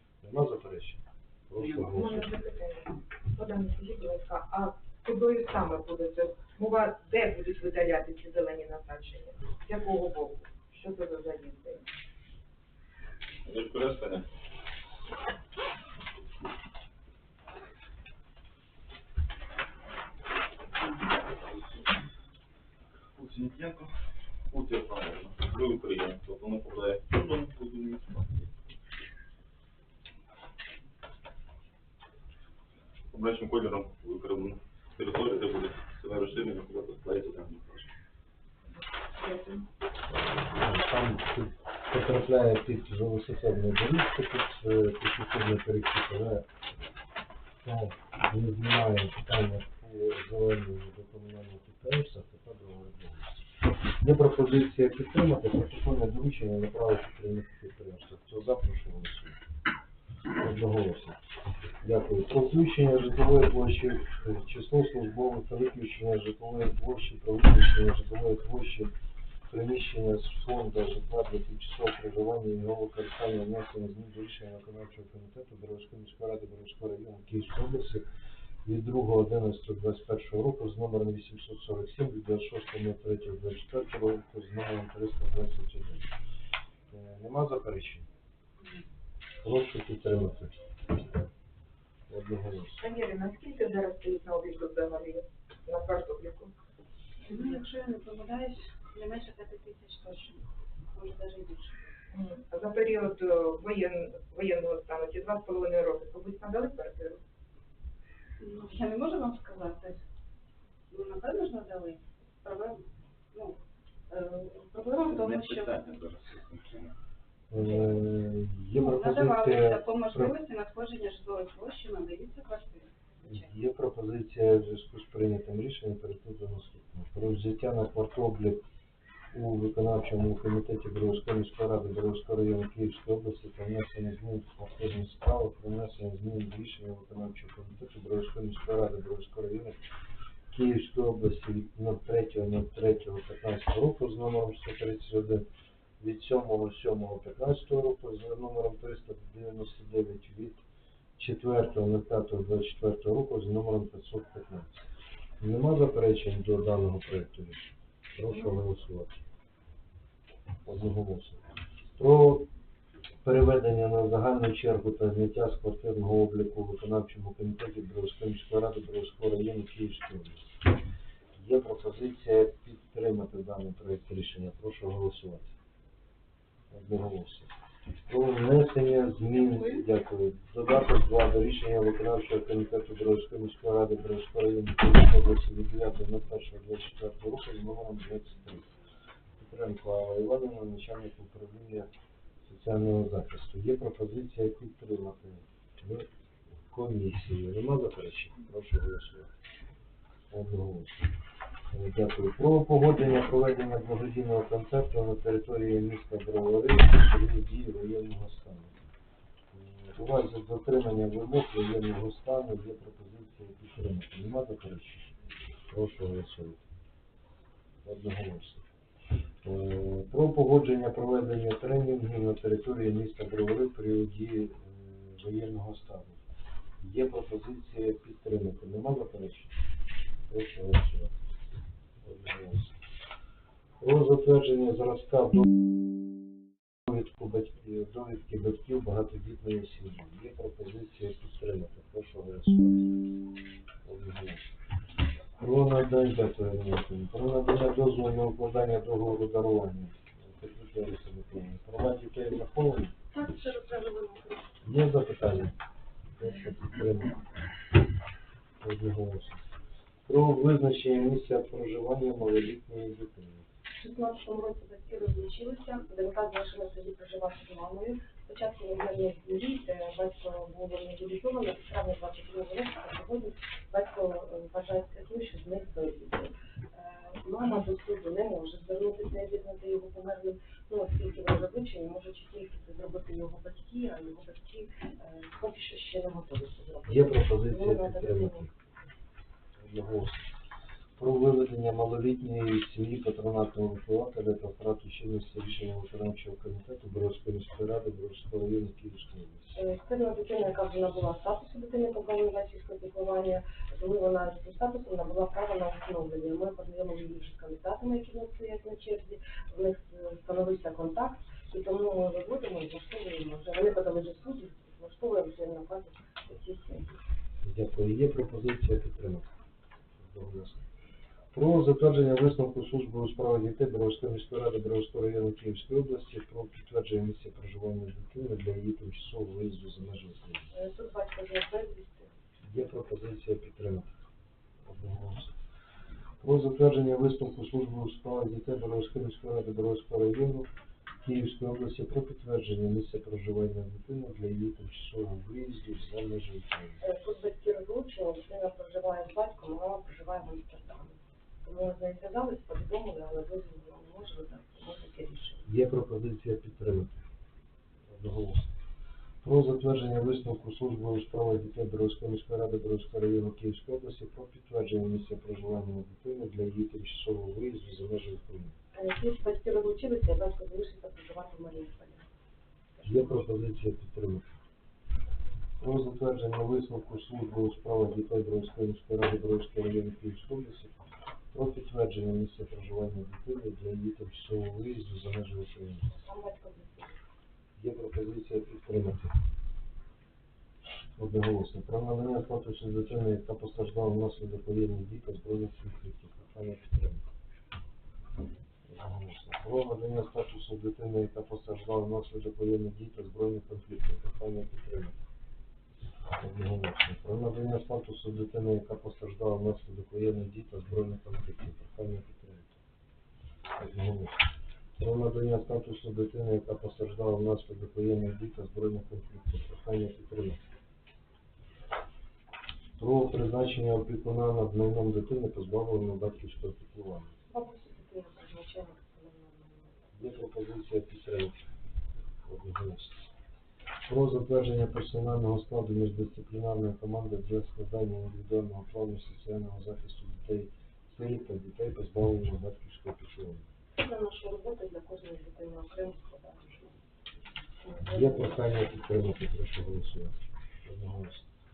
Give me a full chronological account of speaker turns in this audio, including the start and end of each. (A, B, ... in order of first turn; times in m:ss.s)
0:00.2-0:02.3 A
0:01.8-0:11.8 B
0:13.4-0:14.3 C
0:23.2-0:23.9 C
0:24.5-0:28.4 C
0:33.1-0:37.9 C
0:38.7-0:39.7 B
0:40.1-0:46.5 A
0:47.6-0:53.5 A
0:54.0-0:59.4 A
1:00.4-1:01.2 A
1:01.8-1:08.9 A
1:09.5-1:18.0 A
1:18.6-1:26.1 A
1:26.9-1:28.1 A
1:29.4-1:30.6 A
1:32.1-1:32.8 A
1:32.8-1:36.5 B
1:37.3-1:40.4 D
1:40.9-1:41.8 D
1:42.1-1:47.2 B
1:48.4-1:50.0 D
1:50.9-1:52.8 D
1:54.1-1:55.8 D
1:55.0-1:56.8 C
1:57.5-2:00.4 A
1:57.6-1:57.9 D
1:58.8-2:03.4 D
2:03.2-2:08.6 A
2:09.3-2:19.8 A
2:20.5-2:25.5 A
2:26.0-2:30.6 A
2:31.2-2:34.8 A
2:35.4-2:39.2 A
2:40.7-2:41.4 A
2:42.0-2:42.5 A
2:43.2-2:50.4 A
2:51.4-2:55.5 A
2:56.7-2:57.5 A
2:58.1-3:08.7 A
3:09.4-3:11.9 A
3:12.5-3:16.1 A
3:16.7-3:19.3 A
3:20.3-3:21.1 A
3:21.7-3:28.9 A
3:29.5-3:35.1 A
3:35.7-3:36.6 A
3:37.8-3:38.6 A
3:39.4-3:46.2 A
3:46.8-3:49.5 A
3:50.3-3:51.1 A
3:52.0-3:52.8 A
3:53.8-3:55.5 A
3:56.9-4:02.8 A
4:03.8-4:04.4 A
4:05.4-4:13.0 A
4:13.1-4:14.5 E
4:14.6-4:15.6 A
4:16.2-4:17.2 A
4:18.6-4:19.4 A
4:20.1-4:23.4 A
4:23.8-4:48.5 E
4:46.9-4:48.5 A
4:49.6-4:50.3 A
4:51.0-4:59.6 A
4:59.6-5:17.0 E
5:17.4-5:19.3 A
5:20.0-5:20.6 A
5:21.3-5:30.5 A
5:30.5-5:32.2 E
5:32.4-5:33.9 A
5:34.7-5:35.3 A
5:36.2-5:40.5 A
5:41.0-5:46.8 A
5:46.8-5:55.5 E
5:55.5-5:57.0 A
5:57.9-5:58.5 A
5:59.2-6:08.6 A
6:08.8-6:12.1 E
6:12.8-6:13.2 E
6:12.8-6:14.2 A
6:15.6-6:25.9 A
6:25.9-6:27.0 E
6:27.6-6:29.1 A
6:31.0-6:37.1 A
6:38.7-6:45.0 A
6:46.2-6:52.6 A
6:53.6-6:54.2 A
6:54.8-7:00.4 A
7:02.8-7:07.1 A
7:07.3-7:09.8 E
7:10.0-7:11.4 A
7:12.2-7:13.1 A
7:13.9-7:23.5 A
7:23.8-7:26.8 E
7:27.6-7:28.3 E
7:27.8-7:31.3 A